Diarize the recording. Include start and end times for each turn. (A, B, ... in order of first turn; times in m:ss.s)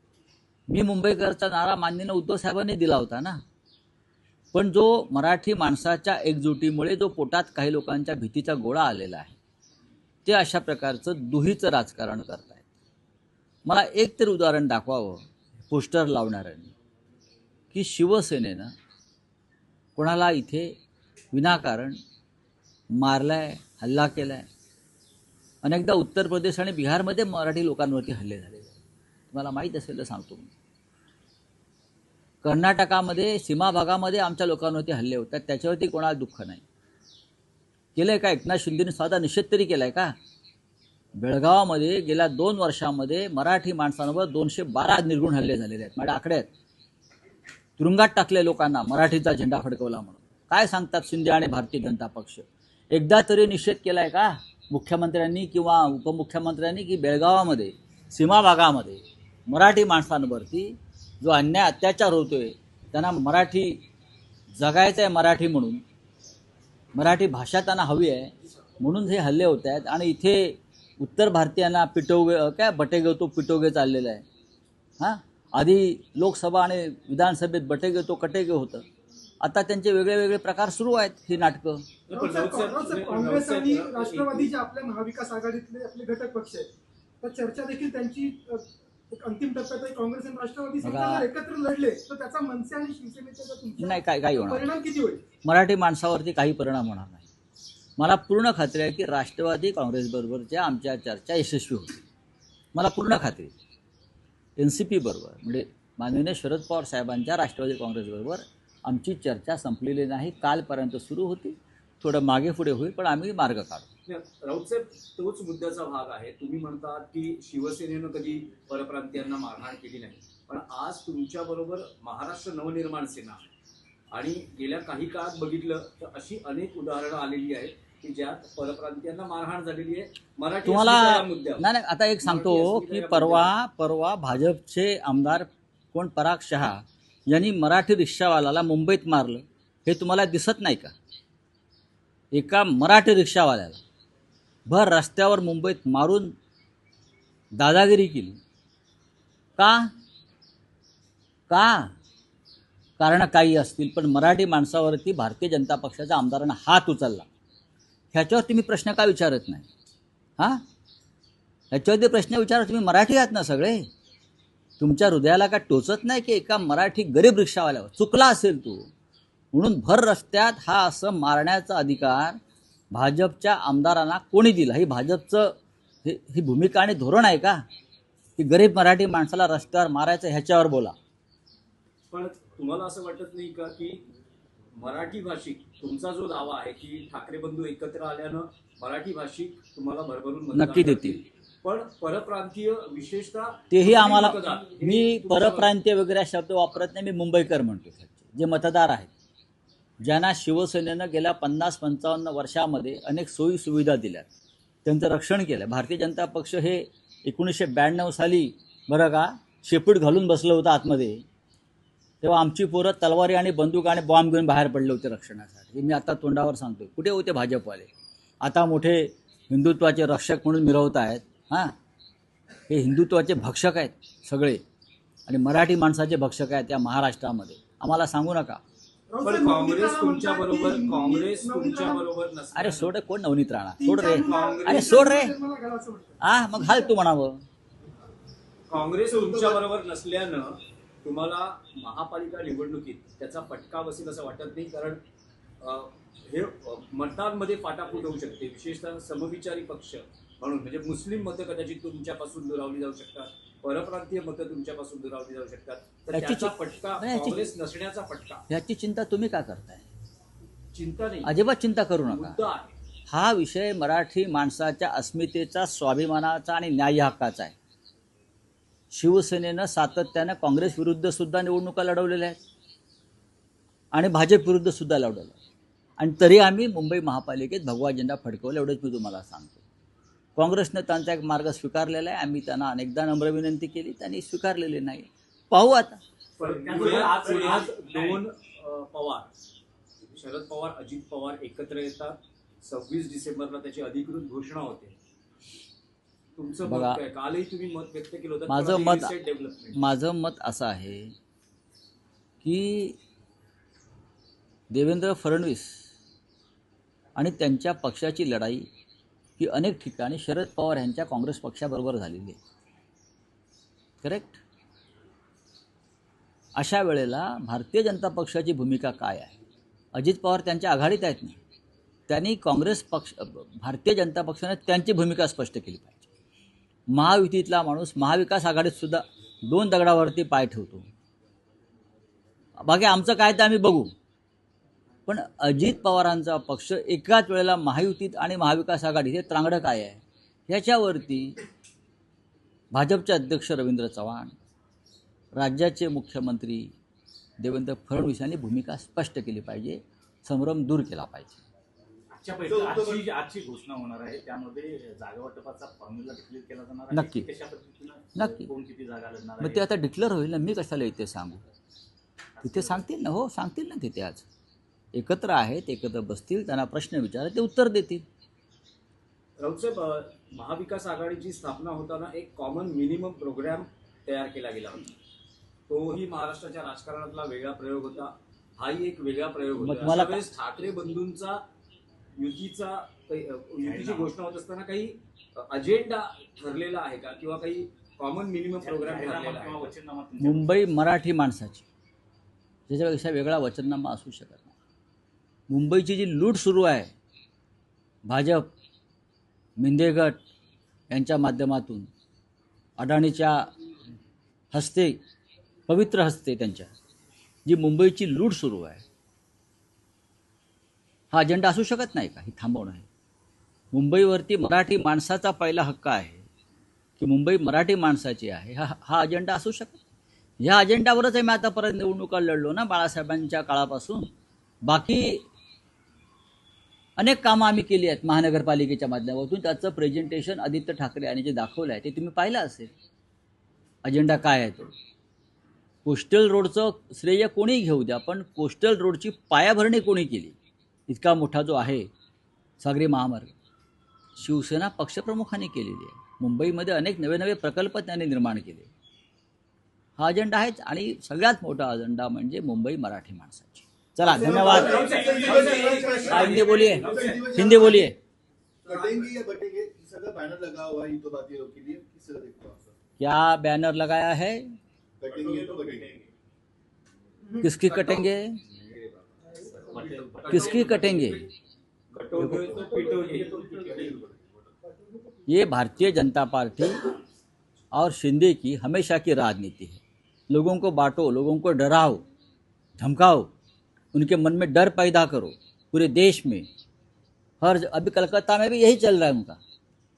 0:00.7-0:03.4 A
0:04.5-0:09.4 A
0:10.2-0:12.6 A
0:13.6-0:16.7 A
0:17.7-0:18.7 A
0:20.0-0:20.7 A
0:21.3-0:22.0 A
0:22.9-0:24.4 A
0:25.6-0:28.8 A
0:29.3-0:30.5 A
0:32.4-0:36.6 A
0:38.0-0:40.1 A
0:41.2-0:46.5 A
0:47.8-1:03.8 A
1:04.5-1:05.8 A
1:06.9-1:14.2 A
1:15.0-1:18.8 A
1:19.4-1:21.9 A
1:22.1-1:24.5 B
1:22.1-1:26.7 C
1:27.2-1:35.2 C
1:30.8-1:31.3 A
1:33.8-1:34.7 A
1:35.4-1:37.3 A
1:38.0-1:42.0 A
1:42.7-1:43.5 A
1:44.6-1:53.9 A
1:54.0-2:03.5 B
2:04.1-2:11.6 B
2:10.6-2:20.9 A
2:12.2-2:13.5 B
2:22.3-2:23.8 A
2:24.7-2:26.3 A
2:27.5-2:28.4 A
2:29.6-2:29.9 A
2:31.5-2:31.9 A
2:33.0-2:37.3 A
2:38.1-2:39.7 A
2:41.7-2:43.8 A
2:44.8-2:48.9 A
2:49.5-2:52.4 A
2:52.9-2:57.6 A
2:58.4-3:01.0 A
3:02.1-3:04.0 B
3:04.7-3:15.7 B
3:10.5-3:11.2 A
3:13.7-3:19.1 A
3:20.0-3:24.3 A
3:24.8-3:31.2 A
3:32.2-3:37.9 A
3:38.4-3:41.7 A
3:42.7-3:44.6 A
3:45.3-3:48.6 A
3:49.1-3:52.0 C
3:49.2-3:52.9 B
3:52.5-3:55.4 A
3:53.8-3:56.9 C
3:54.2-3:55.0 B
3:56.2-3:57.4 A
3:58.7-4:05.0 B
3:59.1-3:59.6 C
4:05.6-4:18.4 B
4:16.1-4:17.5 A
4:18.5-4:19.9 A
4:20.7-4:21.3 B
4:21.2-4:22.4 A
4:22.0-4:22.7 B
4:23.1-4:27.5 A
4:28.9-4:32.4 A
4:33.9-4:35.4 A
4:36.0-4:39.6 A
4:40.4-4:46.0 A
4:46.4-4:49.3 B
4:46.4-4:48.2 D
4:50.1-4:55.0 B
4:56.4-4:59.8 B
4:56.6-4:57.0 A
4:58.5-4:59.1 A
4:59.7-5:01.1 A
5:02.4-5:03.0 A
5:04.7-5:05.9 A
5:07.2-5:08.7 A
5:09.4-5:12.4 A
5:14.0-5:14.4 A
5:16.6-5:19.4 A
5:19.9-5:21.4 A
5:22.1-5:26.0 A
5:26.9-5:30.9 A
5:32.6-5:33.9 A
5:35.1-5:41.3 A
5:42.7-5:44.3 A
5:45.3-5:46.7 A
5:47.4-5:51.4 A
5:52.1-5:59.6 D
5:52.5-5:53.0 E
5:56.9-5:57.3 A
5:58.2-5:58.5 A
5:59.4-6:01.4 A
6:02.4-6:02.8 D
6:02.4-6:04.2 A
6:04.9-6:08.0 A
6:09.4-6:14.9 B
6:15.7-6:21.4 B
6:19.6-6:20.2 A
6:22.2-6:29.7 B
6:23.6-6:24.1 D
6:28.6-6:30.6 D
6:30.2-6:31.6 A
6:32.7-6:34.5 A
6:35.5-6:36.9 A
6:38.0-6:38.5 A
6:39.6-6:40.2 A
6:40.9-6:41.9 A
6:42.8-6:43.5 A
6:44.5-6:45.0 A
6:45.7-6:46.7 A
6:47.4-6:48.8 A
6:51.1-6:52.8 A
6:53.7-6:56.3 A
6:57.0-6:59.8 A
7:00.4-7:04.1 A
7:04.6-7:05.2 A
7:07.0-7:12.7 A
7:13.8-7:14.7 A
7:15.8-7:20.4 A
7:20.9-7:21.9 A
7:22.6-7:23.3 A
7:24.2-7:28.7 A
7:30.0-7:35.0 A
7:34.1-7:36.1 C
7:34.2-7:37.5 B
7:34.2-7:37.9 E
7:35.0-7:35.8 D
7:36.0-7:38.0 A
7:36.7-7:37.0 D
7:38.6-7:42.7 E
7:38.7-7:39.0 B
7:43.0-7:44.4 A
7:45.0-7:46.0 E
7:45.2-7:46.0 D
7:47.4-7:48.4 A
7:47.6-7:51.2 B
7:50.0-7:50.9 D
7:50.3-7:51.3 A
7:51.9-7:54.0 B
7:52.2-7:52.6 A
7:52.5-7:54.1 E
7:55.3-7:56.9 A
7:57.7-8:02.0 A
8:02.8-8:03.3 A
8:03.9-8:06.5 A
8:07.4-8:09.4 A